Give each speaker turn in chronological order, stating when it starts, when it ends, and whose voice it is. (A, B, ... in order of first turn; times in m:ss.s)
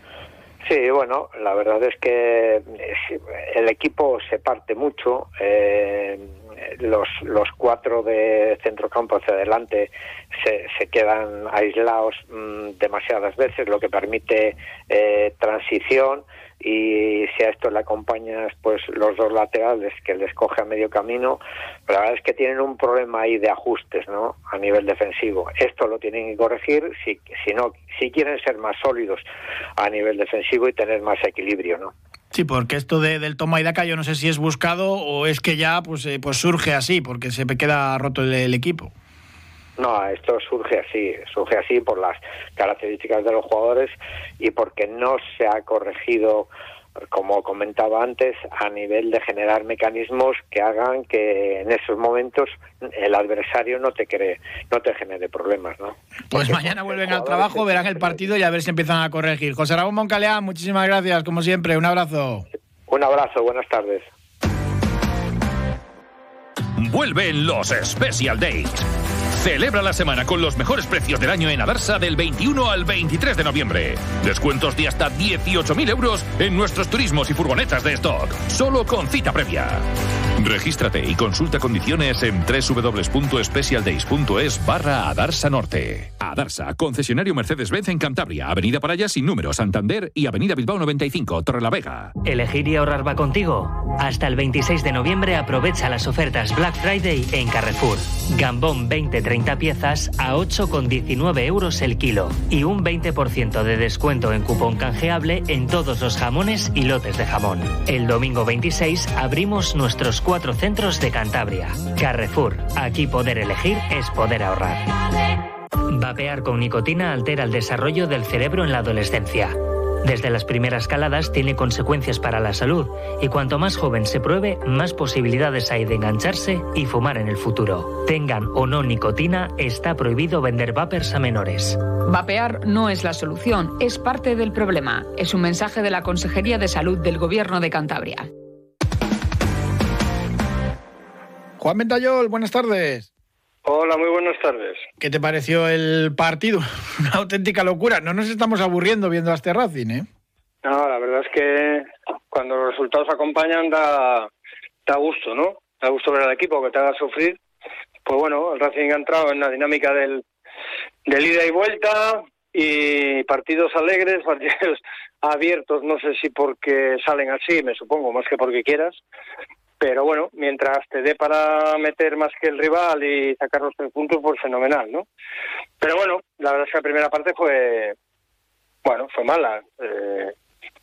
0:00.6-0:29.2 A
0:29.8-0:31.9 A
0:32.3-0:38.9 B
0:39.8-0:46.5 A
0:47.1-0:58.3 A
0:56.3-1:02.5 B
1:02.9-1:04.1 A
1:06.8-1:19.9 C
1:20.4-1:32.2 C
1:32.2-1:54.9 D
1:55.9-2:11.8 D
2:12.0-2:18.3 E
2:21.6-2:23.1 B
2:23.6-2:24.8 F
2:25.0-2:30.1 B
2:30.6-2:34.3 F
2:34.9-2:37.4 F
2:38.1-2:40.2 F
2:41.1-2:49.0 F
2:49.8-2:55.1 F
2:55.8-2:58.0 F
2:58.8-3:00.3 F